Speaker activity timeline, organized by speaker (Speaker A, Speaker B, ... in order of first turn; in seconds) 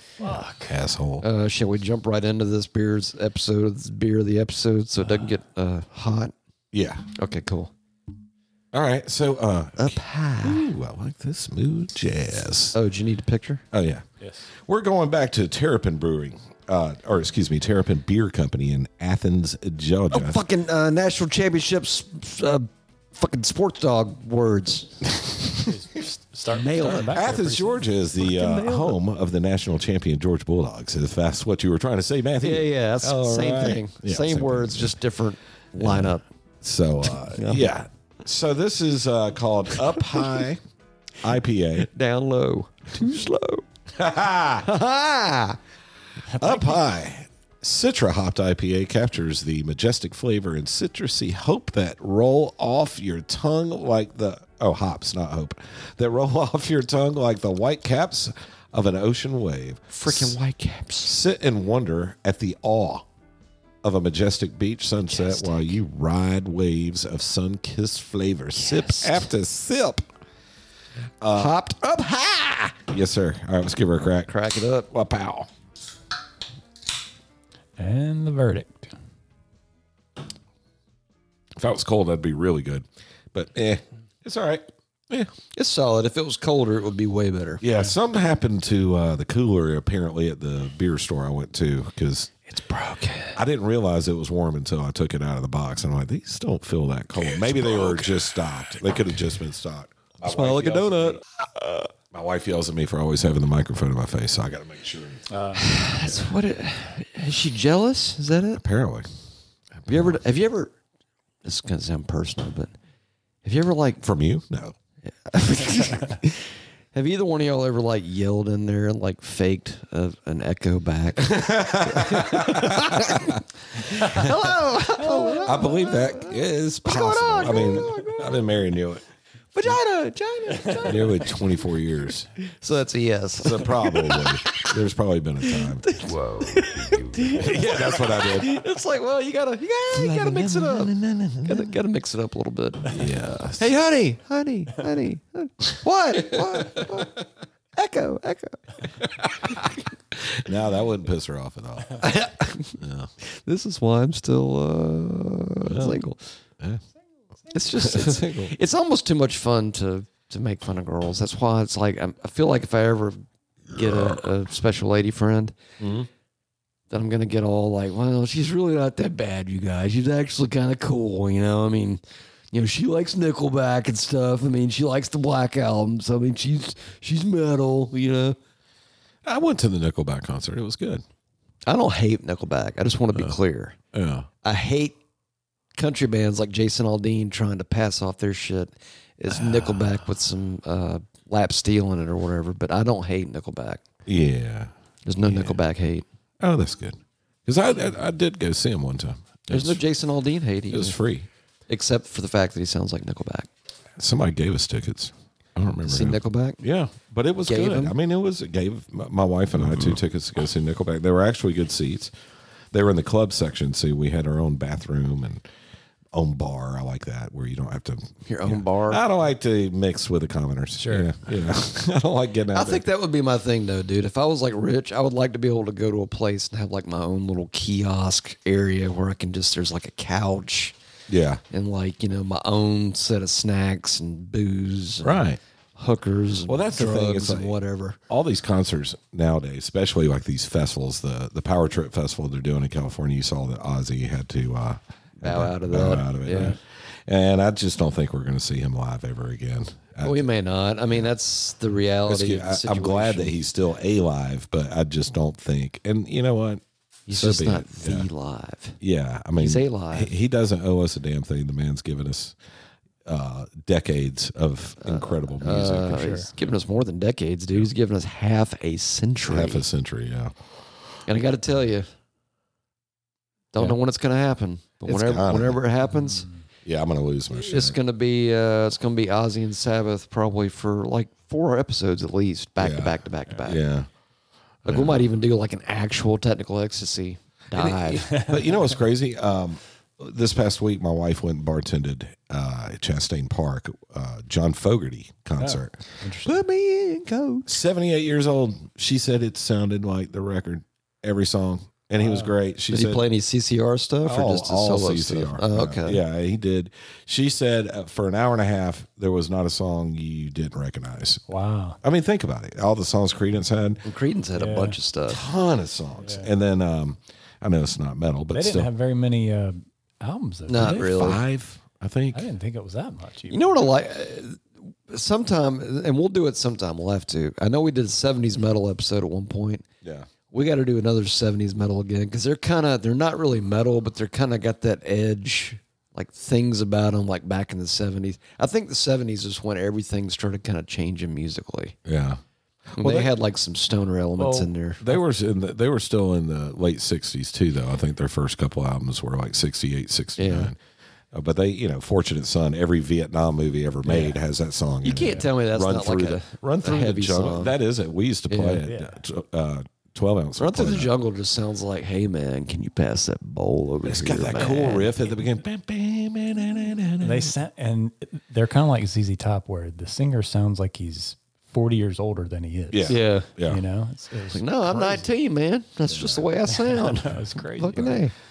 Speaker A: 0.2-0.8, 14.2-14.5, 25.6-27.9, 46.4-46.8, 77.8-78.9, 105.3-106.3, 220.8-221.1, 246.3-246.6, 265.9-266.3, 275.9-276.4, 288.0-288.7, 295.4-296.4, 302.0-302.3, 311.3-311.8, 314.4-314.8, 316.0-316.3, 318.3-320.9, 322.1-323.7, 344.2-344.5, 353.8-354.2, 358.6-359.0, 364.3-364.8, 367.0-375.1, 376.5-378.0
Speaker B: 0.7-1.2, 6.7-7.1, 8.7-12.8, 13.7-20.4, 26.9-34.9, 35.8-40.6, 41.2-41.9, 44.0-44.7, 46.4-60.3, 61.0-63.1, 63.8-70.0, 71.2-71.5, 72.8-74.3, 74.9-75.5, 81.6-85.3, 87.6-92.3, 93.3-101.2, 102.1-105.2, 108.5-109.1, 109.8-110.2, 114.0-114.7, 121.2-123.4, 123.9-124.3, 125.4-129.0, 130.8-132.3, 133.4-135.9, 137.2-138.5, 139.9-141.8, 142.9-143.7, 149.2-149.7, 150.4-152.0, 152.8-153.1, 155.6-156.0, 157.7-158.5, 165.8-166.1, 179.2-181.0, 183.9-184.3, 189.6-189.8, 194.1-195.6, 196.4-199.8, 200.7-201.3, 204.0-212.1, 212.7-215.4, 216.1-222.8, 231.1-231.4, 235.0-235.4, 236.5-237.5, 238.1-250.3, 252.1-258.1, 258.8-262.3, 263.1-266.1, 269.3-270.3, 274.8-275.6, 276.6-277.8, 282.6-283.9, 284.6-285.0, 287.5-295.8, 297.5-303.0, 304.0-311.2, 311.8-313.8, 315.1-318.7, 320.5-322.2, 329.8-330.1, 341.9-342.2, 342.7-343.1, 344.8-350.6, 351.1-360.9, 363.8-367.3, 372.7-373.6, 375.9-376.2
Speaker C: 1.2-6.3, 7.1-7.7, 9.8-10.7, 12.7-13.6, 20.1-25.2, 26.5-27.2, 28.2-28.9, 32.4-36.2, 37.3-37.7, 41.8-43.6, 44.6-45.6, 59.9-61.1, 65.1-65.8, 68.5-69.3, 71.3-72.7, 74.3-74.9, 85.5-87.6, 92.5-93.4, 97.4-98.0, 100.2-101.9, 105.5-108.6, 109.9-110.7, 111.4-112.7, 113.4-114.0, 115.3-128.5, 129.5-131.4, 132.4-134.4, 135.5-140.9, 141.4-143.1, 143.6-147.2, 147.8-148.8, 152.0-156.2, 157.5-165.5, 166.9-172.0, 172.5-178.4, 181.7-183.8, 184.4-184.9, 185.8-193.8, 195.1-196.0, 199.5-201.0, 201.7-203.5, 205.8-206.6, 207.5-207.9, 218.2-219.0, 222.5-230.7, 231.5-235.2, 235.8-238.0, 245.2-246.6, 250.0-253.3, 257.1-258.8, 259.3-260.1, 264.8-269.6, 271.1-271.9, 273.5-276.3, 277.4-283.6, 284.6-288.1, 296.2-297.5, 302.7-306.0, 313.8-315.2, 320.5-321.2, 323.3-329.6, 330.3-341.8, 342.8-344.8, 350.2-350.5, 354.8-357.6, 358.3-358.6, 360.4-364.9, 372.9-373.3, 374.3-378.1